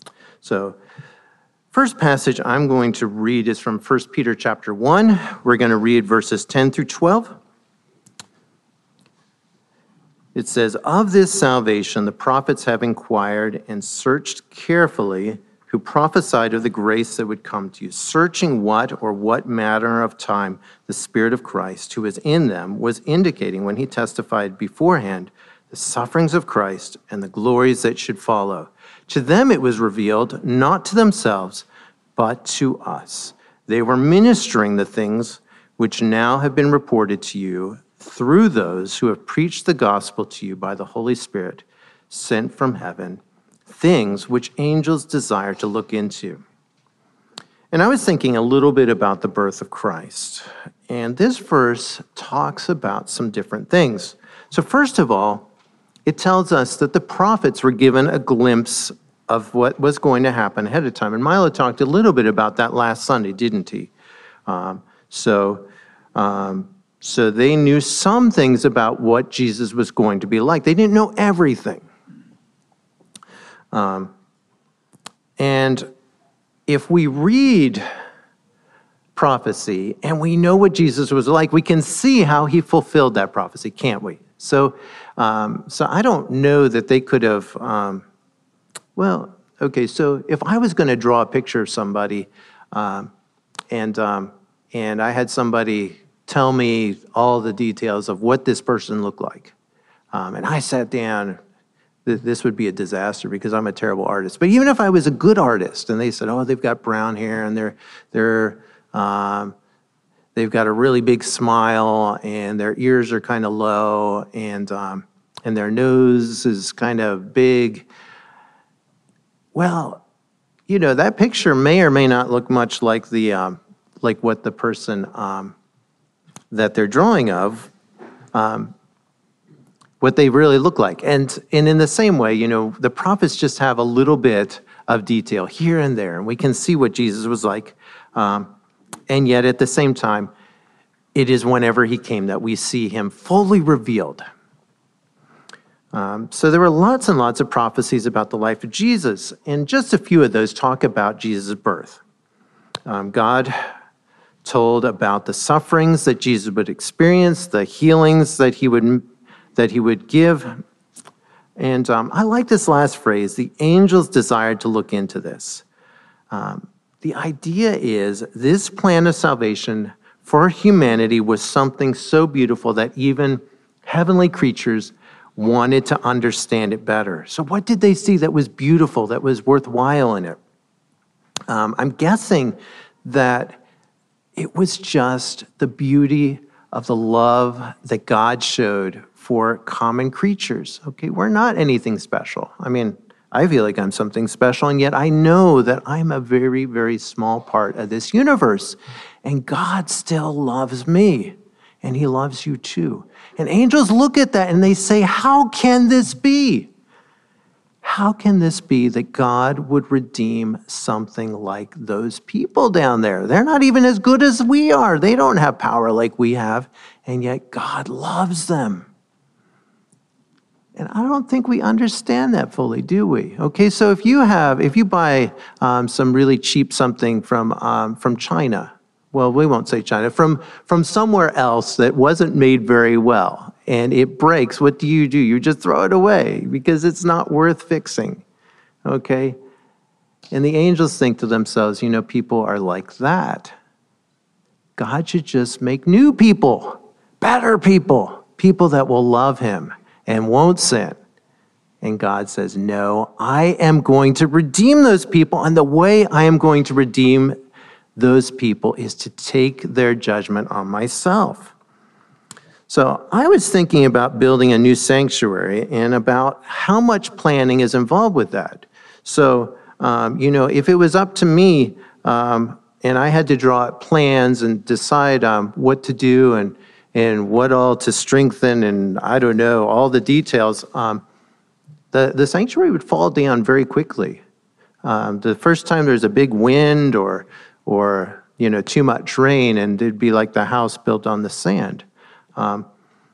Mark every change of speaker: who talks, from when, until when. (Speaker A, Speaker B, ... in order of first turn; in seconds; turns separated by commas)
Speaker A: 0.4-0.8, Speaker A: 1.7-7.3, Speaker A: 10.3-46.4, Speaker A: 47.7-55.5, Speaker A: 56.1-63.9, Speaker A: 64.5-71.9, Speaker A: 73.7-74.1, Speaker A: 75.4-75.9, Speaker A: 76.7-77.8, Speaker A: 79.2-88.0, Speaker A: 89.0-93.1, Speaker A: 93.7-99.5, Speaker A: 100.1-101.4, Speaker A: 102.0-109.5, Speaker A: 110.3-117.9, Speaker A: 119.5-120.0, Speaker A: 120.7-125.5, Speaker A: 126.5-127.7, Speaker A: 128.3-128.7, Speaker A: 130.0-138.5, Speaker A: 139.1-140.3, Speaker A: 141.2-144.2, Speaker A: 145.9-152.0, Speaker A: 152.9-153.6, Speaker A: 154.4-159.1, Speaker A: 159.6-160.6, Speaker A: 161.6-165.7, Speaker A: 166.3-180.4, Speaker A: 181.5-183.6, Speaker A: 184.4-206.7, Speaker A: 207.8-218.9, Speaker A: 220.8-238.2, Speaker A: 238.8-239.4, Speaker A: 240.3-243.5, Speaker A: 244.8-251.0, Speaker A: 251.8-257.4, Speaker A: 258.0-261.5, Speaker A: 262.7-281.0, Speaker A: 281.9-284.2, Speaker A: 284.8-291.9, Speaker A: 292.4-292.7